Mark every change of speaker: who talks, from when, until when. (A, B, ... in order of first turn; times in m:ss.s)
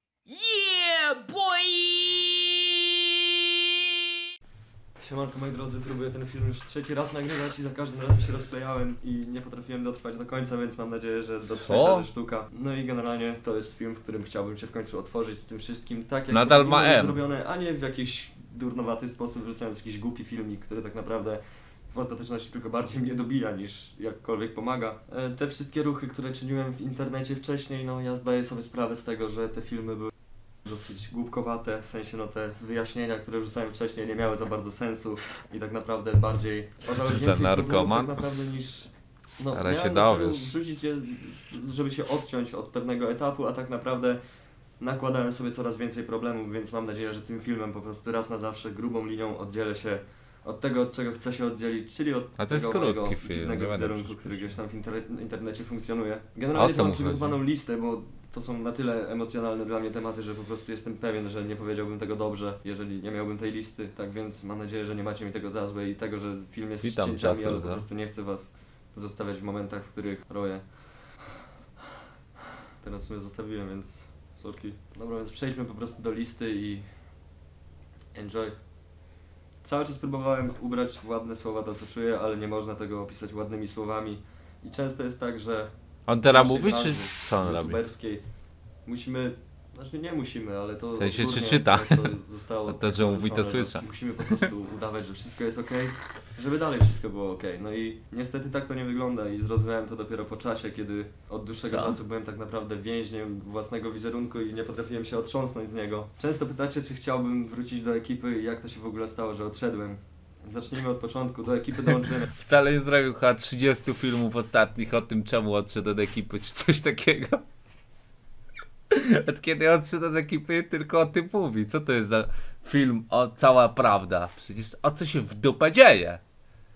0:00.3-0:03.3 A
0:05.0-0:21.4 B
0:11.4-0:12.1 C
0:16.3-0:17.2 C
0:21.9-0:30.1 B
0:30.6-0:44.2 B
0:37.0-0:38.2 C
0:39.5-0:40.5 C
0:44.8-1:10.6 B
0:52.4-0:54.6 C
0:56.5-0:57.4 C
1:06.8-1:07.8 C
1:12.8-1:16.9 B
1:18.1-1:18.5 B
1:19.6-1:25.7 B
1:26.1-1:27.8 C
1:26.2-1:28.2 B
1:28.8-1:52.3 B
1:31.0-1:33.8 C
1:41.5-1:42.0 C
1:52.3-1:57.4 C
1:58.9-2:06.2 C